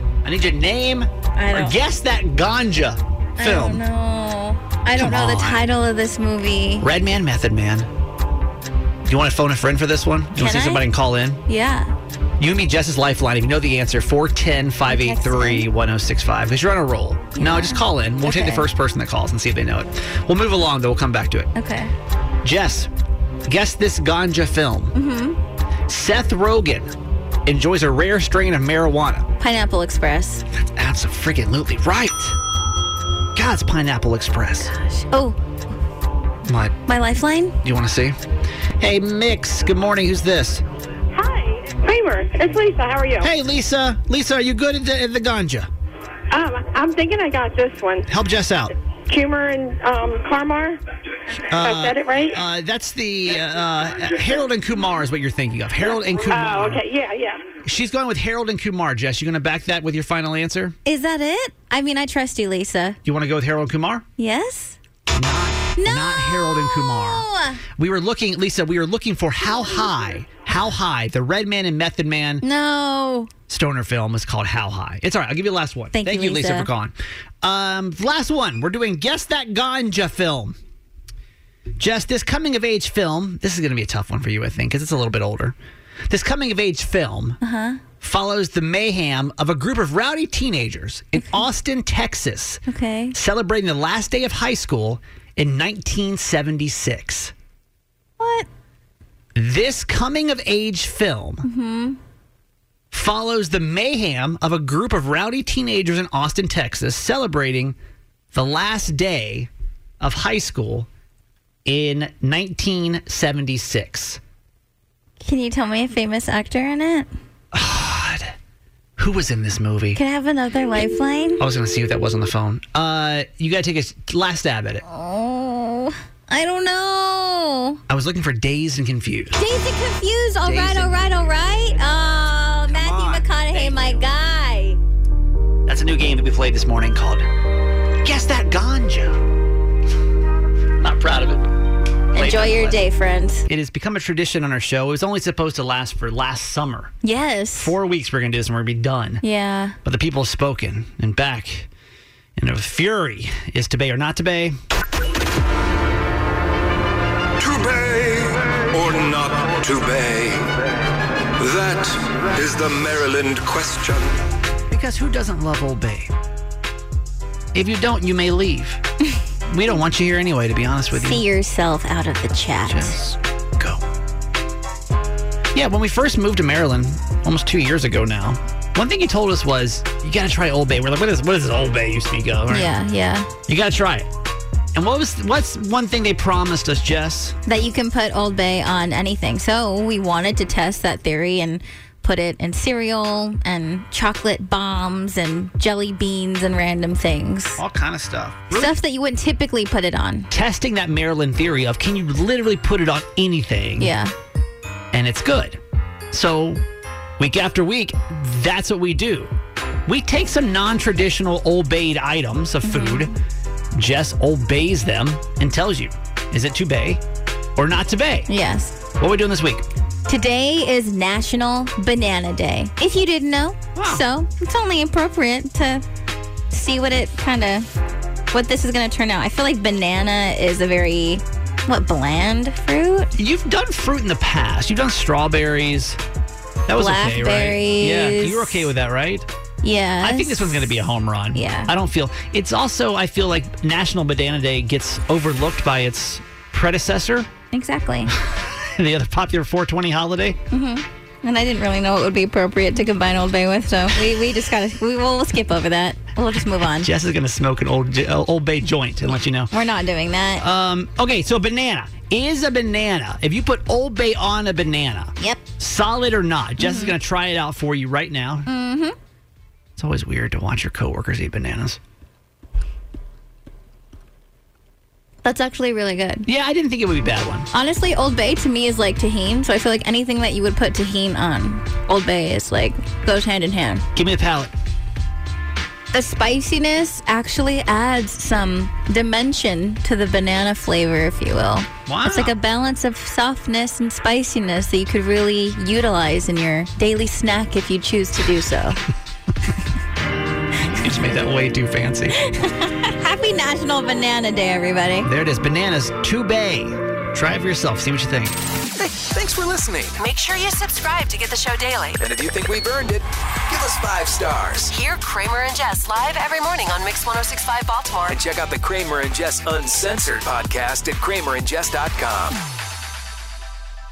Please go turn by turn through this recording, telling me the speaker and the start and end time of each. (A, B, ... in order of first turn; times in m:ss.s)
0:00.2-0:03.8 A
0:01.4-0:01.7 B
0:03.4-0:06.9 B
0:05.0-0:05.6 A
0:06.8-0:07.9 A
0:09.0-0:11.4 A
0:10.4-0:10.8 B
0:11.5-0:11.9 B
0:12.4-0:21.5 A
0:14.9-0:15.6 B
0:17.3-0:18.7 B
0:21.5-0:21.9 B
0:22.4-0:22.9 A
0:23.5-0:24.9 A
0:24.9-0:25.4 B
0:25.9-0:26.9 A
0:27.4-0:29.3 A
0:29.4-0:30.4 B
0:30.7-0:32.4 A
0:33.3-0:34.7 A
0:34.7-0:35.4 B
0:36.4-0:36.8 A
0:36.8-0:37.6 B
0:37.6-0:38.2 A
0:38.8-0:40.6 A
0:41.1-0:43.3 C
0:43.2-0:45.7 A
0:46.3-0:48.0 C
0:48.1-0:48.7 A
0:49.1-0:50.8 C
0:51.5-0:56.8 A
0:51.5-0:52.4 C
0:55.8-0:57.4 C
0:57.6-1:00.8 A
1:00.8-1:03.0 B
1:03.0-1:04.0 A
1:04.2-1:04.8 B
1:05.1-1:12.4 A
1:05.8-1:07.6 B
1:12.4-1:13.3 B
1:13.5-1:20.6 A
1:15.9-1:16.7 B
1:21.8-1:25.5 A
1:26.1-1:27.4 A
1:27.4-1:27.8 B
1:28.0-1:32.6 A
1:31.2-1:31.4 B
1:32.7-1:33.1 B
1:33.1-1:37.3 A
1:38.2-1:38.5 B
1:39.4-1:41.4 A
1:41.4-1:42.0 B
1:42.9-1:47.8 A
1:48.3-1:49.5 A
1:50.0-1:50.9 A
1:51.6-1:54.2 A
1:55.2-1:57.1 B
1:57.5-1:58.3 A
1:59.0-2:00.0 A
1:59.9-2:01.4 B
2:01.4-2:04.8 A
2:04.8-2:07.8 B
2:07.9-2:09.4 A
2:09.3-2:14.8 B
2:10.4-2:11.0 A
2:12.7-2:14.0 A
2:15.7-2:17.3 A
2:18.0-2:19.2 A
2:20.8-2:21.5 A
2:22.1-2:22.8 A
2:22.1-2:23.4 B
2:23.5-2:26.9 A
2:27.0-2:27.7 B
2:27.6-2:29.2 A
2:29.2-2:29.8 B
2:29.8-2:31.7 A
2:32.4-2:34.6 A
2:37.4-2:40.5 D
2:41.4-2:44.1 D
2:44.7-2:46.1 A
2:47.5-2:48.8 A
2:49.5-2:51.2 A
2:50.9-2:52.9 B
2:52.6-2:53.8 A
2:55.5-3:02.7 A
3:02.5-3:03.3 B
3:03.5-3:04.1 A
3:04.7-3:07.4 A
3:07.4-3:17.6 B
3:17.6-3:18.7 A
3:18.5-3:20.3 B
3:20.3-3:23.9 A
3:23.8-3:24.1 B
3:24.9-3:25.6 A
3:26.1-3:26.6 A
3:27.2-3:29.3 A
3:29.9-3:33.1 A
3:32.6-3:33.1 B
3:33.7-3:37.0 A
3:37.6-3:38.3 A
3:38.3-3:38.8 B
3:39.0-3:39.6 A
3:40.1-3:45.8 B
3:43.8-3:44.0 A
3:46.5-3:47.7 B
3:48.3-3:53.1 B
3:53.2-3:56.0 A
3:56.7-3:59.3 A
3:56.8-3:58.7 B
3:59.6-4:00.7 B
4:00.0-4:07.3 A
4:01.3-4:01.7 B
4:07.5-4:08.1 B
4:08.1-4:10.4 A
4:10.5-4:16.9 B
4:16.8-4:19.5 A
4:19.5-4:20.4 B
4:20.4-4:28.5 A
4:26.6-4:26.9 B
4:28.5-4:29.0 B
4:29.8-4:31.8 A
4:35.2-4:36.3 B
4:36.2-4:37.5 A
4:37.5-4:43.8 B
4:44.0-4:44.5 A
4:45.9-4:58.8 B
4:51.9-4:52.3 A
5:00.6-5:02.2 A
5:02.2-5:05.1 B
5:05.0-5:08.4 A
5:08.8-5:10.0 D
5:10.0-5:12.0 E
5:12.0-5:14.7 D
5:14.7-5:18.2 E
5:18.1-5:22.4 D